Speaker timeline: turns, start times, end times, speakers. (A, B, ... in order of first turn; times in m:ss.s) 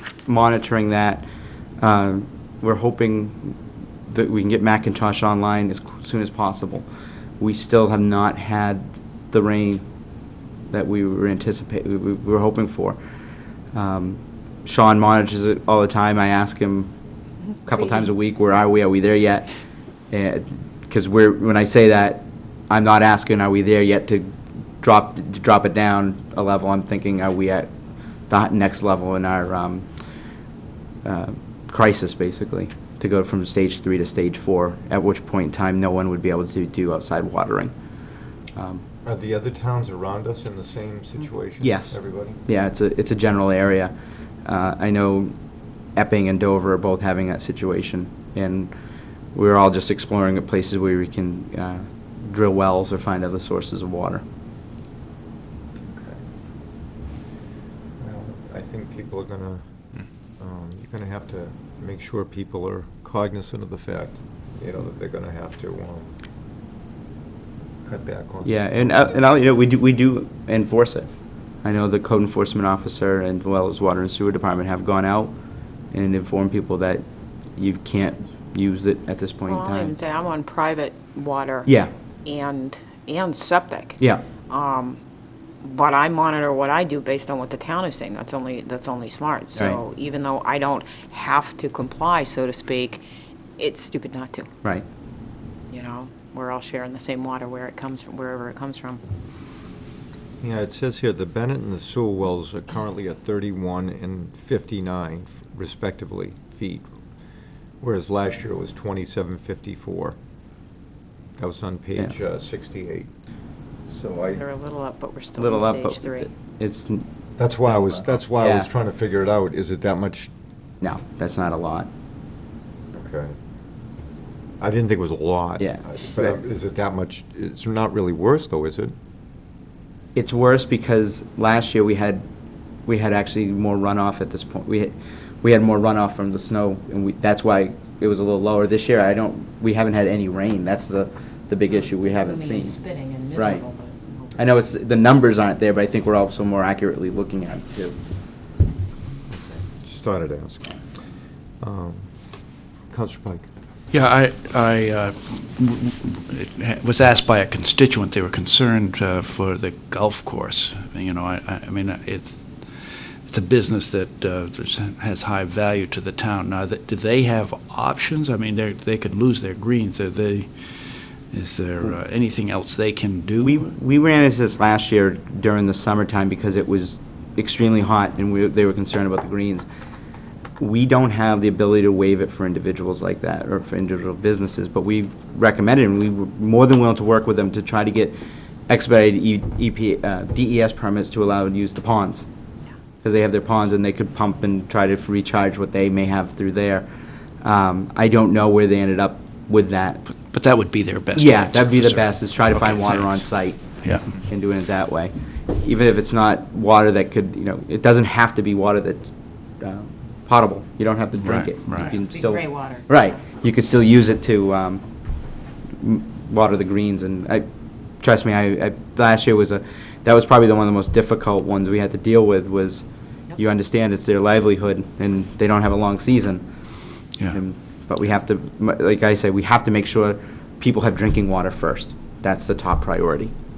0:00.3-0:01.3 A
0:01.8-0:06.8 A
0:07.4-0:09.8 A
0:10.7-0:13.0 A
0:13.7-0:16.9 A
0:17.6-0:19.5 A
0:20.1-0:27.7 A
0:28.3-0:29.8 A
0:31.0-0:37.7 A
0:38.5-0:38.8 A
0:39.0-0:42.4 B
0:41.6-0:43.9 A
0:44.4-0:45.3 A
0:46.0-0:48.7 A
0:49.3-0:54.2 A
0:55.8-0:56.2 B
0:58.0-0:59.7 B
1:00.4-1:06.2 B
1:07.8-1:09.2 B
1:08.4-1:11.1 A
1:11.6-1:15.3 A
1:15.9-1:17.0 A
1:17.6-1:19.9 A
1:19.5-1:21.7 C
1:21.6-1:21.9 A
1:22.2-1:25.0 C
1:25.6-1:33.0 C
1:33.6-1:34.5 C
1:35.7-1:39.0 C
1:40.4-1:46.9 B
1:47.8-1:50.2 B
1:51.4-1:53.1 B
1:53.9-1:54.4 B
1:54.3-1:56.3 C
1:55.4-1:57.1 A
1:57.4-2:00.3 B
1:57.6-1:58.7 A
2:00.8-2:01.9 A
2:02.9-2:03.4 B
2:04.6-2:08.9 B
2:05.6-2:06.3 A
2:10.1-2:12.2 A
2:12.8-2:22.8 A
2:21.7-2:24.3 C
2:23.3-2:23.6 A
2:24.4-2:28.0 A
2:29.3-2:30.8 B
2:31.6-2:32.1 B
2:32.9-2:33.5 B
2:33.9-2:53.7 D
2:53.4-2:59.7 A
3:00.6-3:08.2 A
3:08.7-3:12.2 A
3:13.0-3:16.9 A
3:17.4-3:20.0 A
3:20.1-3:23.2 D
3:21.1-3:23.6 A
3:23.8-3:24.1 D
3:24.2-3:29.1 A
3:29.6-3:34.8 A
3:31.2-3:31.9 D
3:31.7-3:33.1 C
3:35.8-3:37.4 A
3:38.0-3:42.8 A
3:43.4-3:46.4 A
3:47.3-3:53.3 A